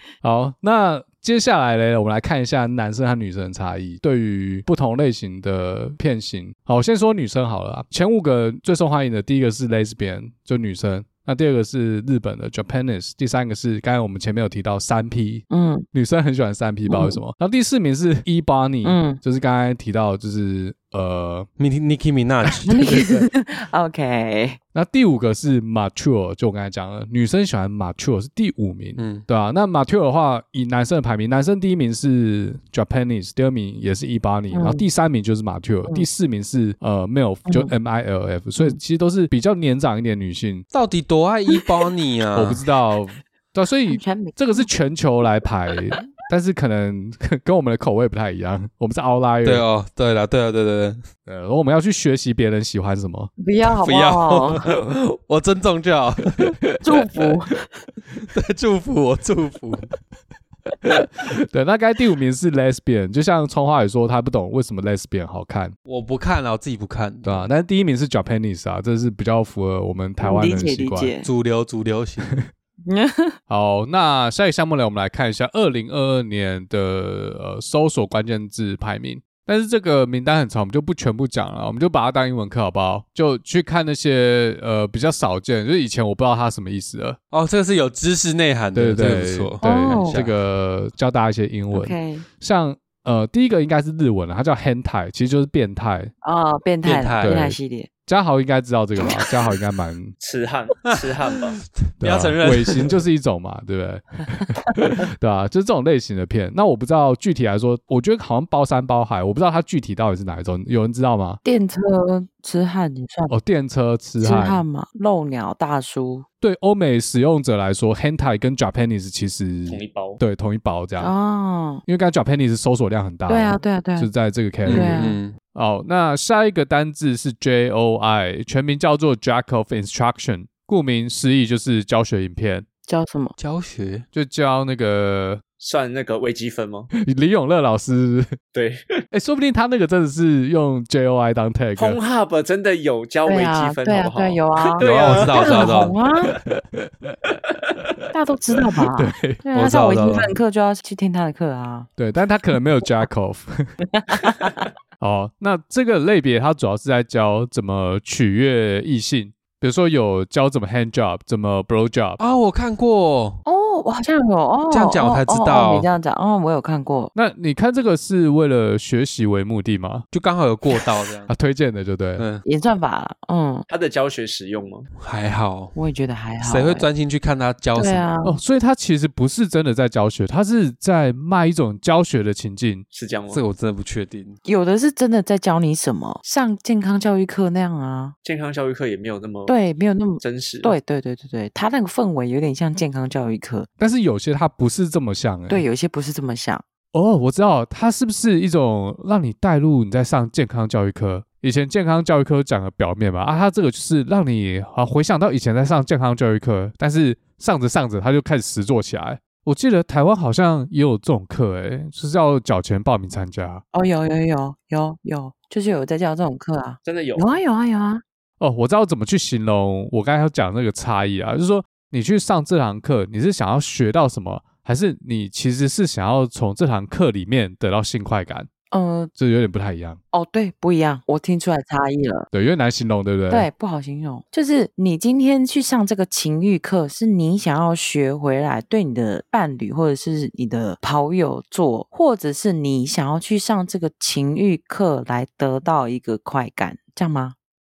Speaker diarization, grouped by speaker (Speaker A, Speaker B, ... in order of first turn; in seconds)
Speaker A: 0.2-21.5, 24.7-40.6, 42.4-49.6, 51.3-53.3, 61.5-65.7, 67.2-71.1, 73.5-87.2, 88.8-96.1, 97.2-100.2, 102.0-111.4, 113.3-114.6, 116.4-121.1, 121.9-125.0, 125.5-132.7, 134.1-135.4, 137.0-138.4, 139.1-142.0, 146.5-147.2, 148.8-149.4, 152.0-153.7, 155.0-162.2, 167.2-170.1, 171.3-172.3, 178.2-182.9, 193.8-195.7, 196.9-213.6, 218.4-228.5, 229.2-230.0, 232.3-233.5
Speaker B: 15.5-15.8, 16.9-17.2, 18.8-19.2, 22.7-24.6, 34.5-34.9, 37.5-37.7, 43.9-44.7, 53.4-54.6, 56.8-57.7, 70.2-71.3, 72.9-73.4, 89.6-90.2, 91.7-92.2, 96.2-97.9, 111.4-113.4, 114.2-116.3, 121.0-121.8, 123.3-124.1, 124.7-125.2, 132.9-133.3, 143.2-146.3, 148.1-151.9, 154.0-154.5, 163.5-167.1, 172.4-173.7, 175.8-176.9, 177.8-178.4, 184.4-188.1, 189.5-193.7, 195.5-196.6, 213.7-218.0, 228.7-229.1, 230.1-232.3, 233.3-247.3
Speaker C: 21.6-23.2, 29.0-29.3, 40.7-42.6, 49.4-51.0, 53.8-56.7, 58.3-59.9, 65.9-67.5, 71.2-72.3, 87.3-90.4, 96.8-97.4, 100.9-103.0, 124.7-125.4, 133.4-134.1, 144.8-146.0, 149.5-150.3, 162.2-163.4, 164.7-165.9, 170.1-171.3, 172.2-172.4, 175.0-175.8, 176.4-178.1, 183.3-184.4
Speaker D: 100.2-101.6, 119.7-120.2, 135.6-136.9, 138.5-138.8, 141.8-145.7, 173.7-174.9, 182.9-183.4, 188.2-189.6, 190.2-190.8, 216.8-217.4